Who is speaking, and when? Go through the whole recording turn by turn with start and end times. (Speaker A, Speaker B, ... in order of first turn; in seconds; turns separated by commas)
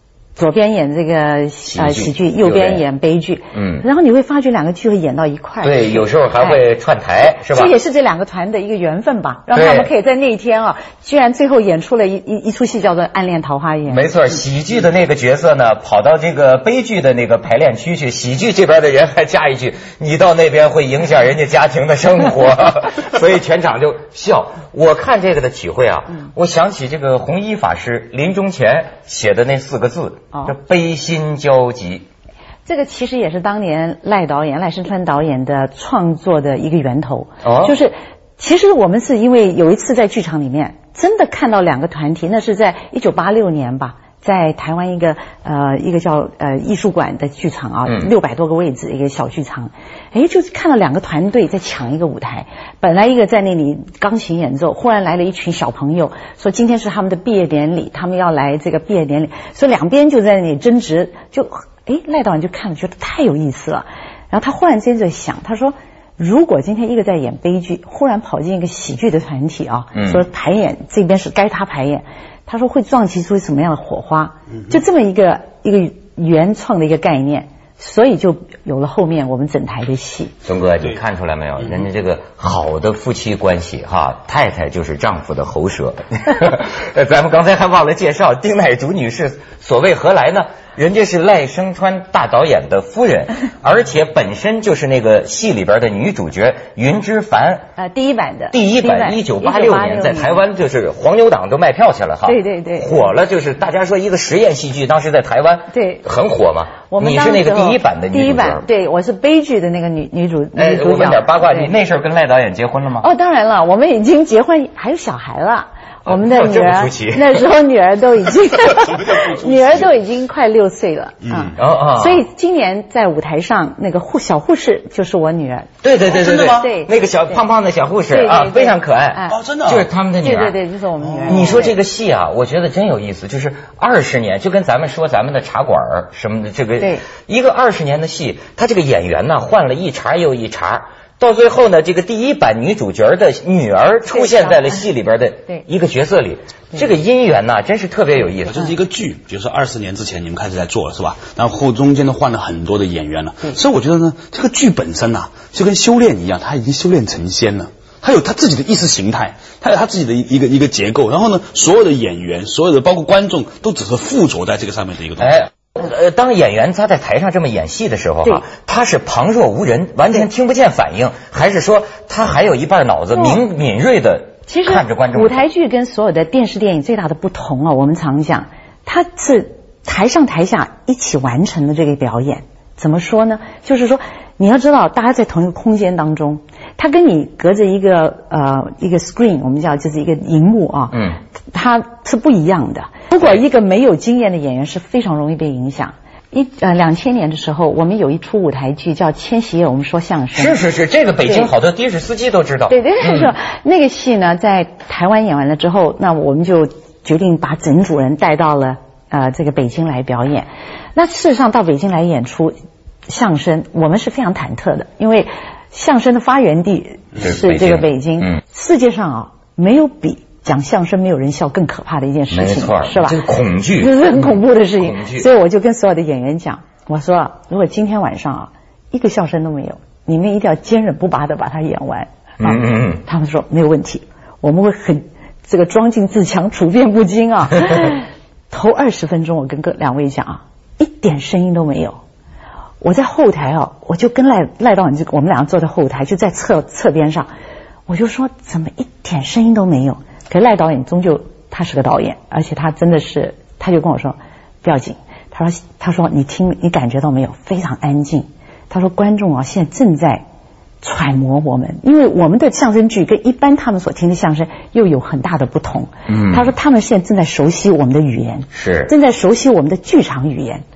Speaker A: 0.3-6.6, Speaker B: 1.7-2.8, Speaker B: 3.5-3.8, Speaker B: 5.6-7.7, Speaker A: 7.5-14.1, Speaker B: 9.5-9.9, Speaker B: 13.8-32.0, Speaker A: 32.6-80.3, Speaker B: 37.4-37.8, Speaker B: 69.9-70.2, Speaker B: 80.4-97.7, Speaker A: 97.8-100.4, Speaker B: 98.5-108.6, Speaker A: 102.2-103.0, Speaker A: 105.7-106.0, Speaker A: 106.9-111.7, Speaker B: 110.5-113.1, Speaker A: 113.0-125.7, Speaker B: 116.0-117.4, Speaker C: 118.6-119.9, Speaker C: 121.2-121.6, Speaker B: 121.6-122.2, Speaker B: 125.8-130.6, Speaker C: 126.0-126.7, Speaker A: 126.4-126.9, Speaker A: 128.1-129.3, Speaker C: 129.3-129.9, Speaker A: 130.2-131.7, Speaker C: 131.0-131.7, Speaker B: 131.3-148.7, Speaker A: 136.8-137.0, Speaker A: 144.1-144.8, Speaker C: 148.4-165.4, Speaker B: 165.2-175.4, Speaker A: 173.1-173.4, Speaker A: 174.5-200.6, Speaker B: 200.3-203.3, Speaker A: 202.7-212.6, Speaker A: 213.1-223.2, Speaker B: 217.2-217.8, Speaker B: 222.3-225.3, Speaker A: 223.8-242.0, Speaker B: 232.4-233.0, Speaker A: 242.8-247.3, Speaker A: 247.9-260.2, Speaker A: 260.8-270.6, Speaker B: 266.1-266.5, Speaker B: 268.5-268.9